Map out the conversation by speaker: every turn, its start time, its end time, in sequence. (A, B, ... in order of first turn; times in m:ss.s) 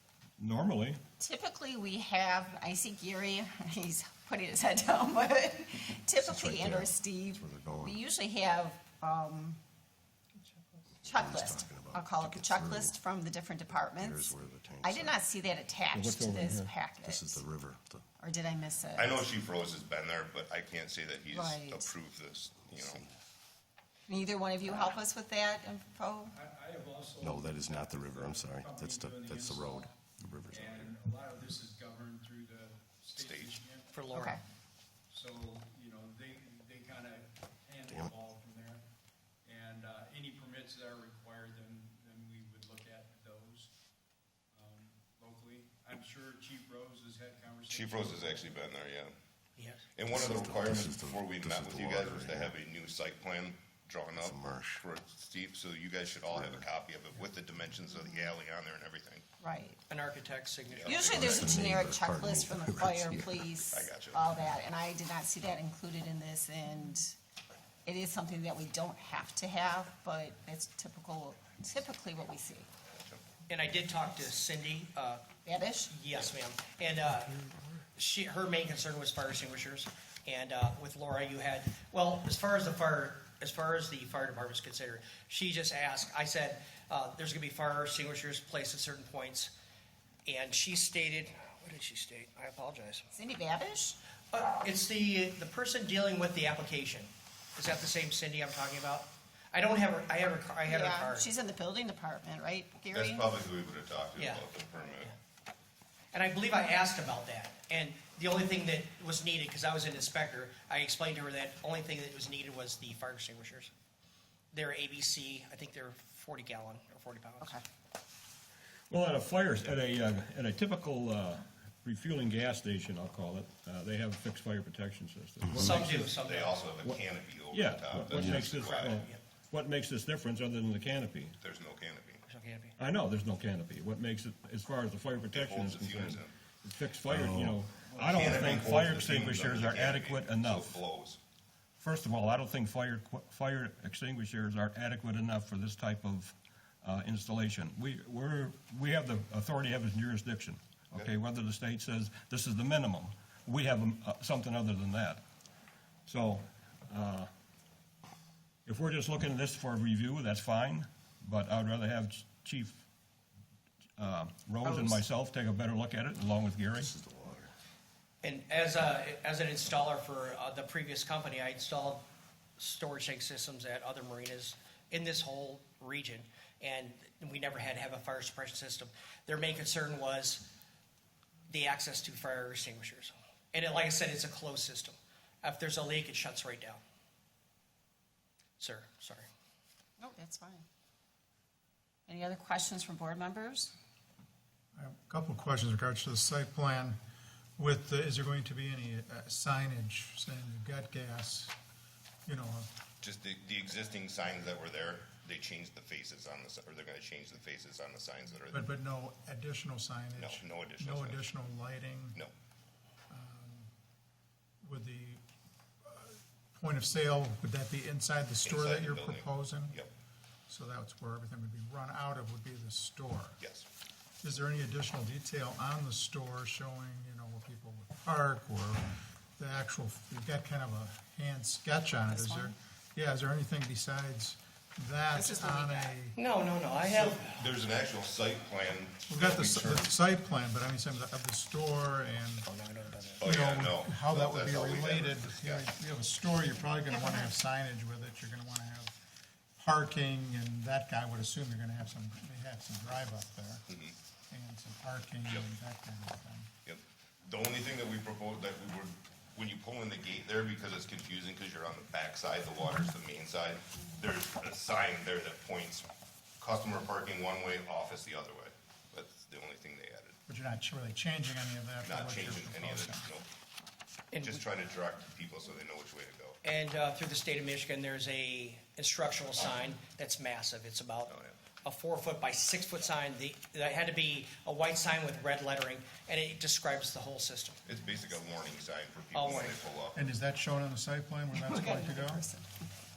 0:00.4-0:01.0 A
0:01.2-0:09.6 B
0:06.1-0:08.0 C
0:11.0-0:13.0 C
0:11.0-0:17.4 B
0:13.7-0:15.2 C
0:15.9-0:16.7 A
0:17.0-0:18.0 C
0:18.2-0:19.3 B
0:18.9-0:23.1 D
0:21.3-0:21.9 B
0:24.1-0:26.3 B
0:26.3-0:30.0 E
0:27.2-0:30.9 C
0:30.5-0:34.0 E
0:33.2-0:33.6 D
0:33.9-0:34.4 F
0:34.1-0:34.4 B
0:35.1-0:38.8 E
0:37.9-0:38.1 C
0:39.4-0:43.7 E
0:44.5-0:48.5 E
0:47.7-0:49.1 D
0:49.6-0:49.8 F
0:49.9-0:59.2 D
0:50.1-0:52.6 C
0:54.1-0:54.8 C
0:56.3-0:56.6 C
0:57.9-0:58.3 B
0:59.4-0:59.8 B
0:59.9-1:01.5 F
1:00.7-1:01.6 D
1:00.8-1:07.1 B
1:01.0-1:03.5 C
1:03.7-1:04.4 D
1:07.8-1:12.7 B
1:13.5-1:15.2 F
1:15.4-1:16.0 B
1:15.9-1:29.5 F
1:30.2-1:33.1 F
1:33.1-1:34.0 B
1:34.3-1:41.3 F
1:40.7-1:43.4 B
1:42.9-1:45.1 D
1:44.1-1:44.4 F
1:46.1-1:53.7 F
1:54.5-1:57.6 F
1:58.9-2:06.1 A
2:05.4-2:05.8 C
2:05.5-2:06.6 F
2:05.6-2:09.1 D
2:06.8-2:11.4 A
2:08.1-2:08.4 C
2:08.3-2:09.2 F
2:11.4-2:12.2 D
2:12.3-2:12.7 F
2:12.8-2:20.8 A
2:15.3-2:16.3 D
2:17.0-2:17.6 C
2:18.0-2:21.2 D
2:18.2-2:18.6 E
2:21.8-2:35.2 A
2:36.0-2:37.3 A
2:38.6-2:42.8 A
2:44.0-2:46.9 A
2:46.8-2:47.5 C
2:48.2-2:52.0 F
2:52.6-3:00.5 F
3:01.5-3:06.8 F
3:08.6-3:09.3 F
3:10.0-3:10.6 B
3:12.1-3:13.7 B
3:14.8-3:17.0 G
3:17.6-3:21.5 G
3:22.2-3:22.7 G
3:23.0-3:28.7 D
3:28.5-3:32.2 G
3:30.2-3:31.3 D
3:33.1-3:33.7 G
3:34.6-3:35.2 G
3:35.8-3:39.8 G
3:38.4-3:39.9 D
3:40.5-3:43.4 G
3:43.4-3:43.7 D
3:44.2-3:56.2 G
3:52.1-3:52.5 B
3:55.1-3:55.9 B
3:56.1-3:57.5 F
3:56.8-4:00.0 D
3:59.1-4:02.5 G
4:02.4-4:03.2 F
4:03.2-4:05.8 D
4:03.2-4:09.0 G
4:06.9-4:07.3 B
4:09.6-4:13.6 G
4:13.7-4:13.9 D
4:14.3-4:16.5 G
4:15.2-4:15.5 D
4:16.6-4:25.9 D
4:26.4-4:30.2 D
4:30.3-4:33.1 G
4:31.8-4:33.3 D
4:34.1-4:34.4 F
4:34.2-4:36.4 D
4:36.4-4:41.1 F
4:41.1-4:41.4 D
4:41.6-4:47.6 F
4:47.6-4:50.0 D
4:49.1-4:49.6 F
4:49.9-4:52.3 G
4:51.4-4:52.5 B